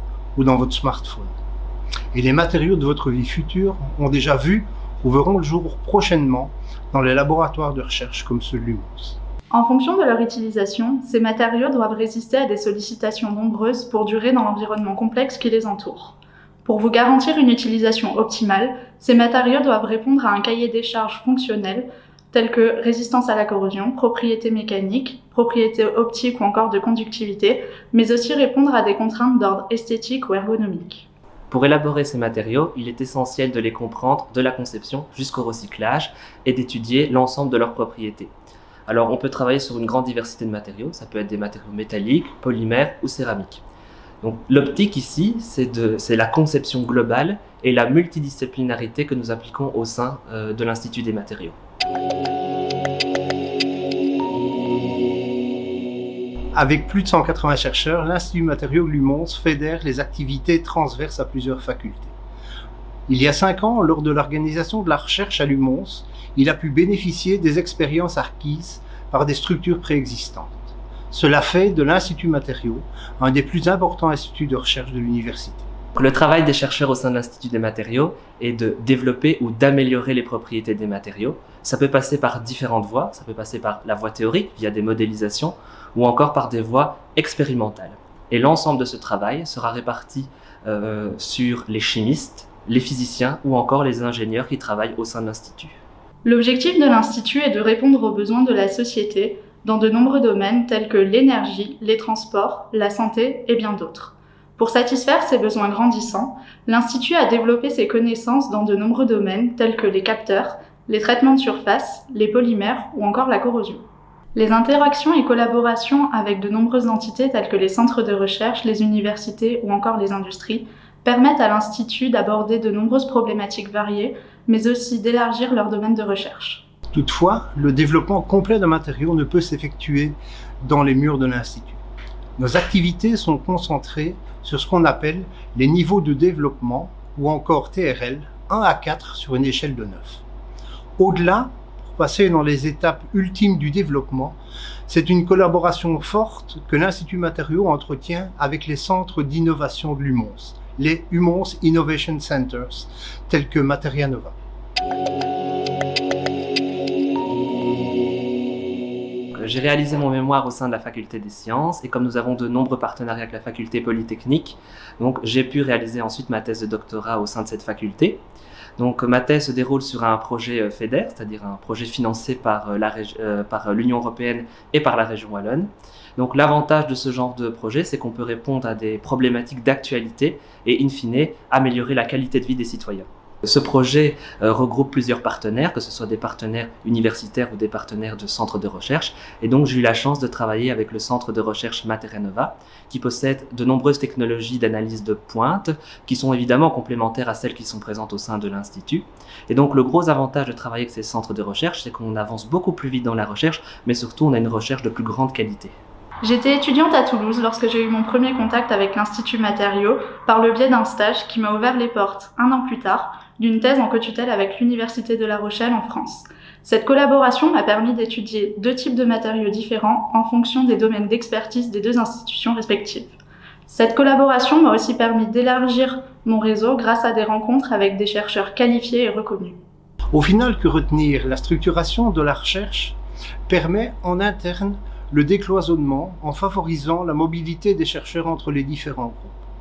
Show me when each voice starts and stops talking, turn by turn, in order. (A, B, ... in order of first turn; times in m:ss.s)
0:00.4-0:01.3 A
0:02.1-0:09.2 A
0:09.5-0:31.1 B
0:31.5-0:38.3 C
0:38.9-0:43.6 C
0:44.2-0:51.6 C
0:56.5-1:02.1 A
1:03.1-1:15.6 A
1:15.9-1:35.8 C
1:36.2-1:53.8 B
1:54.3-2:06.6 B
2:06.9-2:11.8 A
2:12.4-2:20.2 A
2:21.0-2:34.3 A
2:39.4-2:48.2 C
2:48.8-3:25.7 C
3:26.2-3:49.6 B
3:50.1-3:59.4 A